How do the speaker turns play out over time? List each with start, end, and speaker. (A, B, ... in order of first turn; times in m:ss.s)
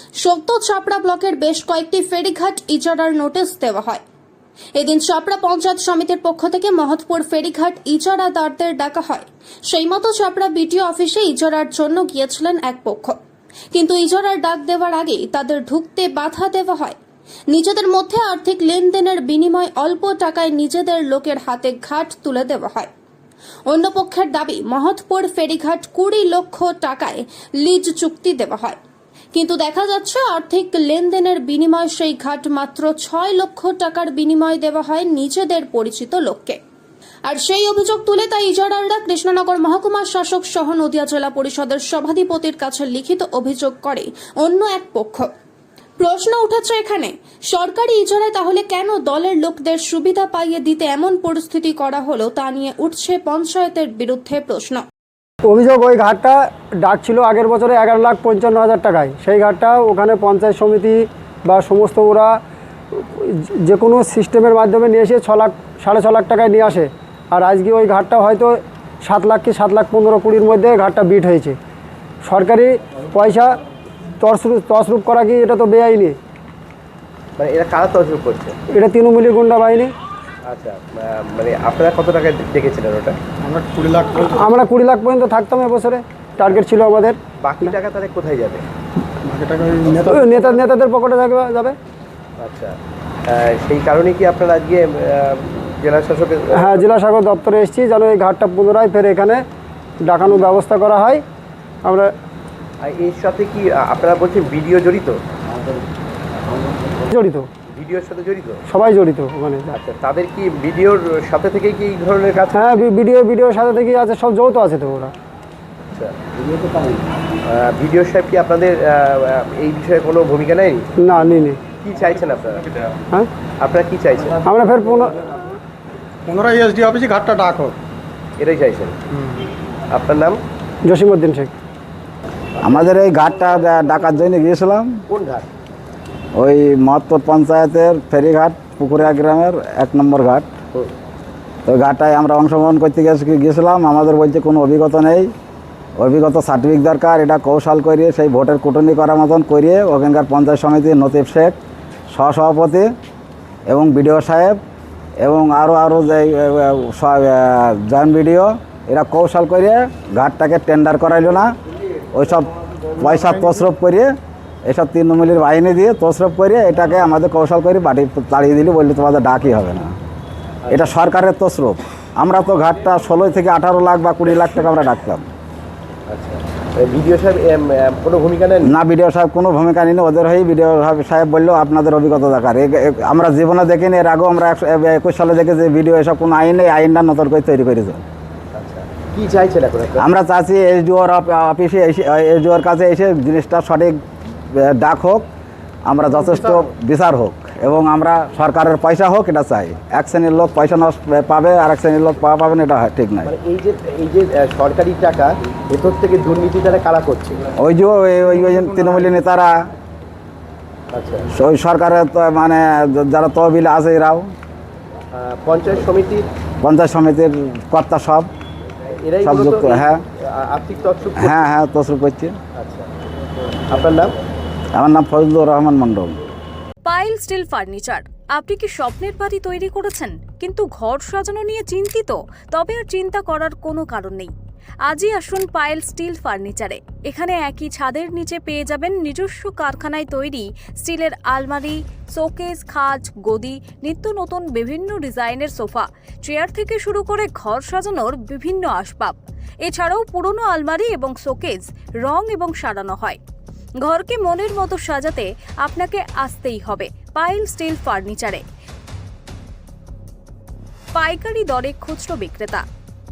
0:00.2-0:04.0 A
0:04.8-0:13.2 A
0:13.7-0:17.0 A
0:17.5-0:22.9 A
0:23.7-0:28.8 A
0:29.3-0:36.6 A
0:37.3-0:45.3 A
0:46.0-0:54.8 A
0:55.4-1:02.3 B
1:02.9-1:11.6 B
1:12.2-1:13.5 B
1:14.2-1:16.2 B
1:17.4-1:18.6 C
1:18.7-1:19.9 B
1:20.5-1:23.2 C
1:23.5-1:24.3 D
1:24.3-1:27.2 B
1:27.4-1:28.7 C
1:29.3-1:30.0 D
1:30.0-1:31.8 B
1:30.1-1:30.3 C
1:32.4-1:32.8 C
1:33.3-1:36.9 C
1:36.6-1:39.4 B
1:40.0-1:41.2 B
1:41.8-1:42.1 B
1:42.8-1:45.2 C
1:47.0-1:47.5 B
1:47.7-1:48.6 C
1:48.7-1:49.6 B
1:49.7-1:52.8 C
1:52.5-1:55.1 B
1:55.9-1:56.2 C
1:57.4-2:00.9 C
2:01.0-2:01.6 B
2:01.7-2:02.7 C
2:03.6-2:04.4 C
2:04.4-2:05.2 B
2:06.3-2:07.7 D
2:08.4-2:09.0 C
2:09.9-2:10.4 C
2:10.9-2:11.5 B
2:12.6-2:15.0 E
2:15.1-2:15.5 C
2:16.4-2:20.5 E
2:21.6-2:25.3 E
2:26.0-2:31.6 E
2:32.1-2:32.9 E
2:33.7-2:34.6 E
2:35.2-2:41.5 E
2:42.1-2:44.1 E
2:44.7-2:50.0 E
2:50.7-2:55.3 E
2:56.1-2:58.7 C
2:58.6-3:08.0 E
3:08.5-3:10.0 C
3:10.0-3:15.3 E
3:15.9-3:23.3 E
3:23.2-3:27.4 C
3:27.6-3:29.6 E
3:30.9-3:31.3 C
3:31.3-3:34.3 E
3:35.1-3:36.3 C
3:36.6-3:38.3 E
3:39.0-3:41.5 C
3:39.2-3:40.0 E
3:41.2-3:42.4 E
3:42.6-3:42.9 C
3:43.7-3:44.2 C
3:44.8-3:46.2 E
3:46.9-3:54.3 F
3:54.9-4:13.2 F
4:13.8-4:18.4 F
4:21.0-4:22.6 F